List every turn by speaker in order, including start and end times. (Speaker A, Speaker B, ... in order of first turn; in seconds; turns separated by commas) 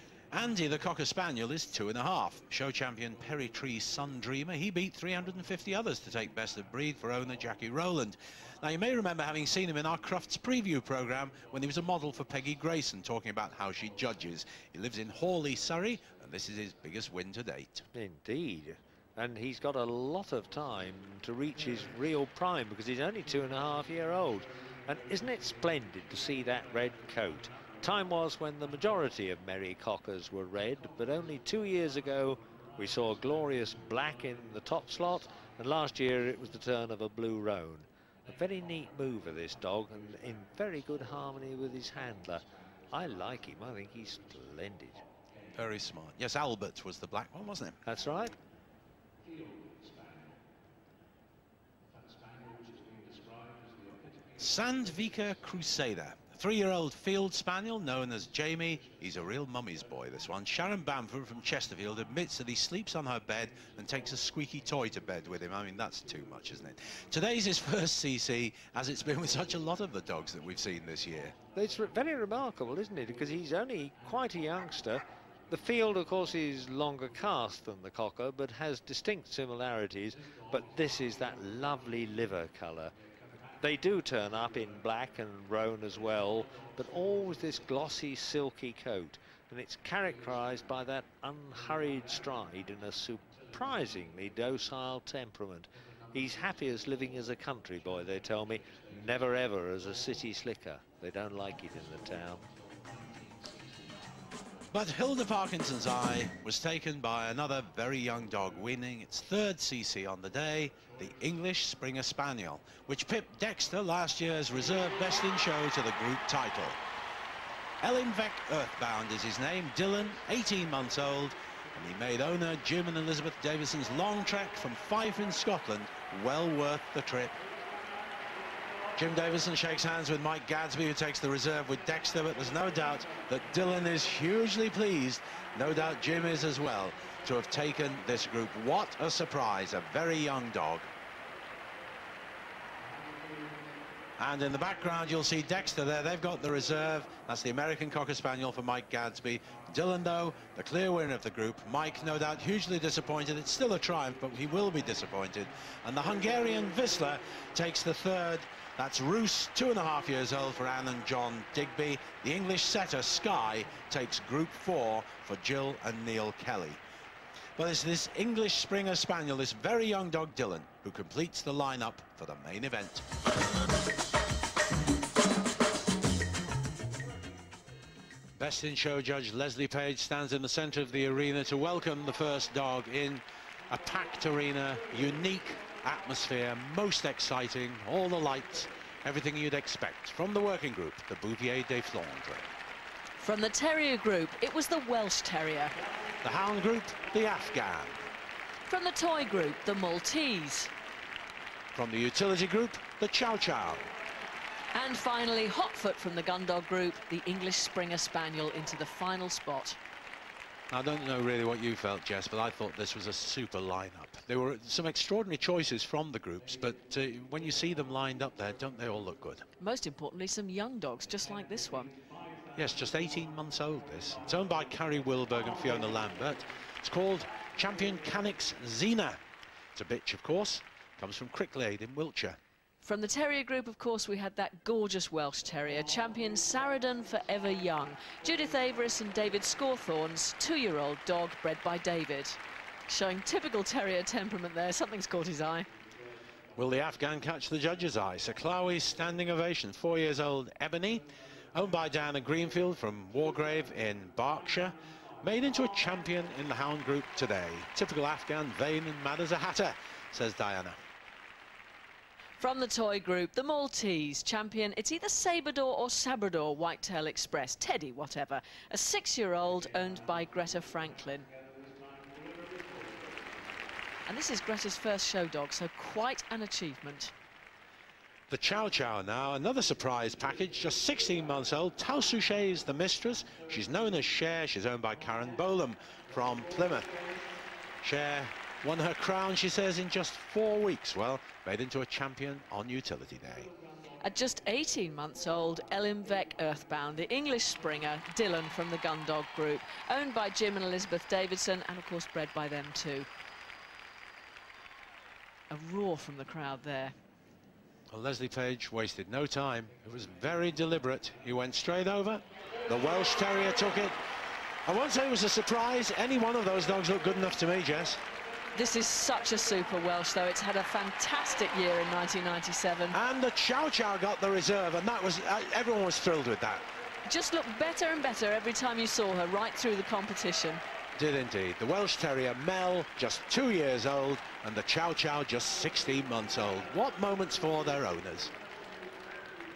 Speaker A: 0.3-17.9, Speaker B: 17.9-45.0, Speaker A: 45.5-47.8, Speaker B: 47.9-48.4, Speaker A: 54.4-71.3, Speaker B: 71.5-82.9, Speaker B: 83.6-102.4, Speaker A: 104.7-116.8, Speaker A: 117.8-127.4, Speaker A: 129.0-140.9, Speaker A: 144.2-166.8, Speaker A: 167.6-173.0, Speaker A: 178.4-192.5, Speaker C: 193.2-195.7, Speaker A: 196.2-198.0, Speaker C: 198.7-200.7, Speaker A: 201.7-203.9, Speaker C: 204.7-209.8, Speaker A: 210.7-219.5, Speaker C: 219.6-222.0, Speaker A: 222.6-229.2, Speaker A: 229.8-232.4, Speaker C: 232.8-245.7, Speaker A: 246.6-260.8, Speaker C: 262.4-271.3, Speaker C: 274.1-277.1, Speaker A: 278.3-287.0, Speaker A: 287.8-293.5, Speaker C: 294.0-303.1, Speaker C: 305.5-306.9, Speaker A: 307.9-314.0, Speaker A: 314.7-318.0, Speaker C: 318.6-323.0, Speaker A: 322.9-326.6, Speaker C: 327.1-330.6, Speaker A: 331.0-338.3